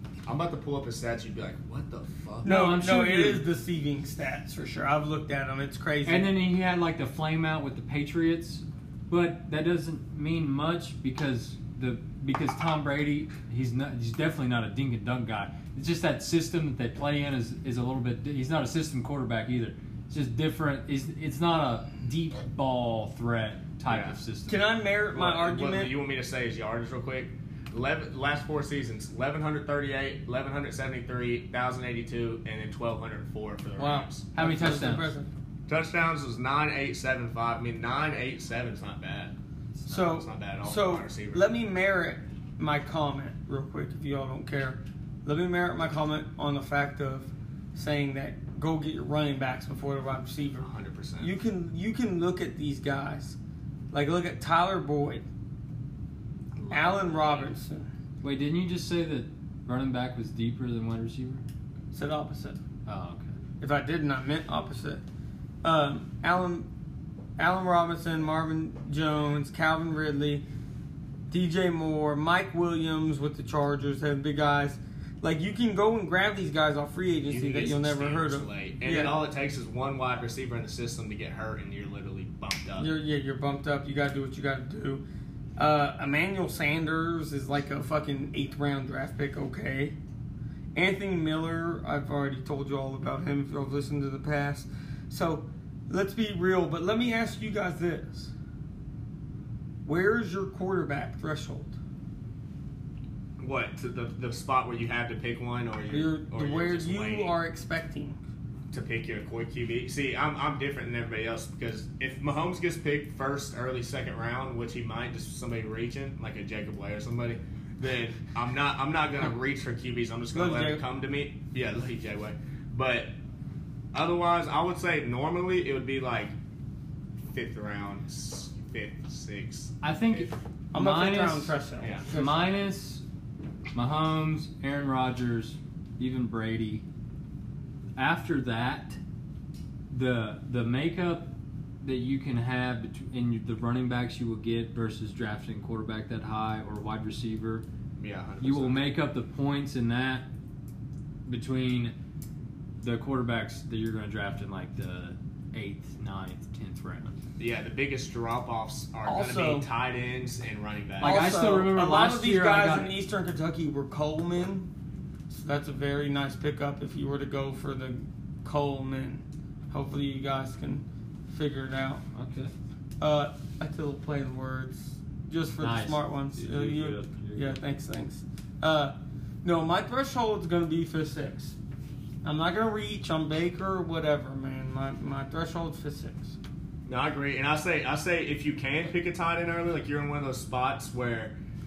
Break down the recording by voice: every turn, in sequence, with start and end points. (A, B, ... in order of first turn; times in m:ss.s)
0:00.2-0:02.5 A
0:02.4-0:03.4 B
0:02.4-0:06.3 C
0:06.0-0:24.6 B
0:23.9-0:24.2 A
0:24.5-0:25.9 C
0:25.1-0:34.3 A
0:33.8-0:35.3 C
0:34.3-0:35.1 B
0:35.7-0:39.3 A
0:39.9-0:53.4 C
0:39.9-0:41.5 A
0:50.6-0:51.3 A
0:53.9-0:55.2 C
0:56.6-0:57.4 B
0:56.7-0:57.9 C
0:58.2-1:01.4 B
1:01.9-1:02.6 C
1:02.9-1:03.4 B
1:03.6-1:05.0 C
1:05.6-1:06.7 C
1:07.4-1:10.4 C
1:11.3-1:19.2 C
1:17.3-1:22.9 A
1:22.8-1:25.0 C
1:25.6-1:30.0 C
1:30.8-1:38.3 C
1:39.9-1:41.8 C
1:43.4-1:47.3 A
1:45.9-1:48.2 C
1:48.7-2:03.1 A
2:00.3-2:00.8 C
2:03.9-2:06.3 A
2:07.3-2:10.3 A
2:09.8-2:11.6 B
2:10.7-2:12.5 C
2:11.8-2:12.1 A
2:12.1-2:13.0 B
2:13.7-2:16.8 B
2:18.0-2:19.0 B
2:19.9-2:21.3 B
2:21.8-2:27.6 B
2:28.0-2:28.9 A
2:28.4-2:30.3 B
2:31.3-2:31.9 B
2:32.8-2:37.2 B
2:37.4-2:41.3 A
2:39.0-2:39.7 C
2:41.0-2:42.9 B
2:41.0-2:44.7 C
2:45.3-2:52.0 C
2:52.1-2:52.5 B
2:53.0-3:01.6 C
2:55.6-2:57.6 B
3:02.2-3:06.4 C
3:06.9-3:11.4 A